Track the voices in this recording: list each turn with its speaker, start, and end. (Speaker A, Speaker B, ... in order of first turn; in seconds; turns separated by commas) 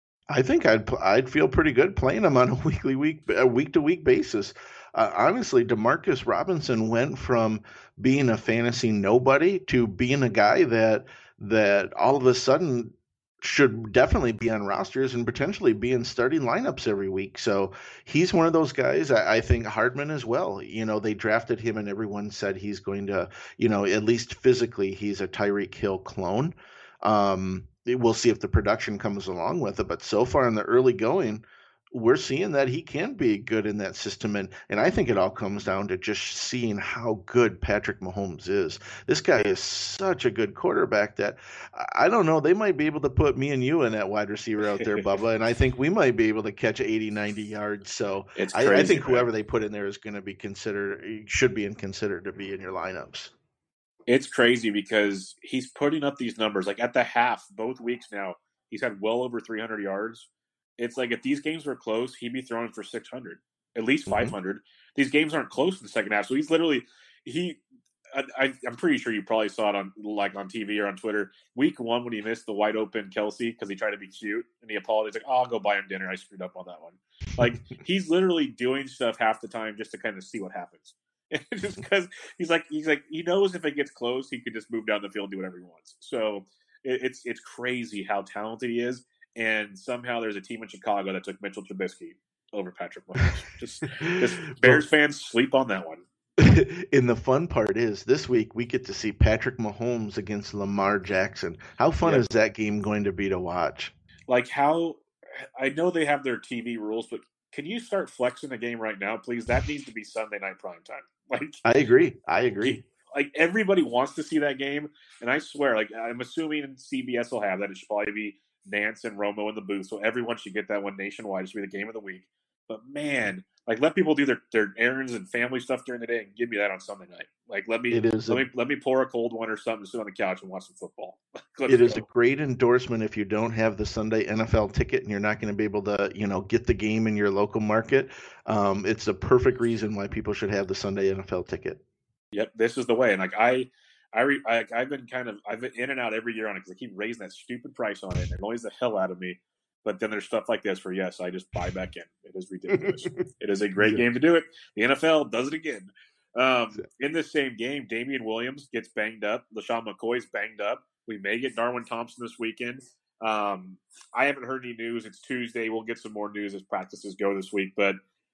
Speaker A: 0.3-53.3, Speaker B: 48.4-49.3, Speaker B: 54.1-67.6, Speaker A: 64.1-64.3, Speaker B: 68.1-96.0, Speaker A: 94.6-94.8, Speaker A: 96.4-103.9, Speaker B: 104.3-105.0, Speaker B: 105.6-111.6, Speaker A: 111.6-112.8, Speaker B: 112.7-132.1, Speaker A: 127.9-128.4, Speaker A: 131.7-141.8, Speaker B: 142.3-168.0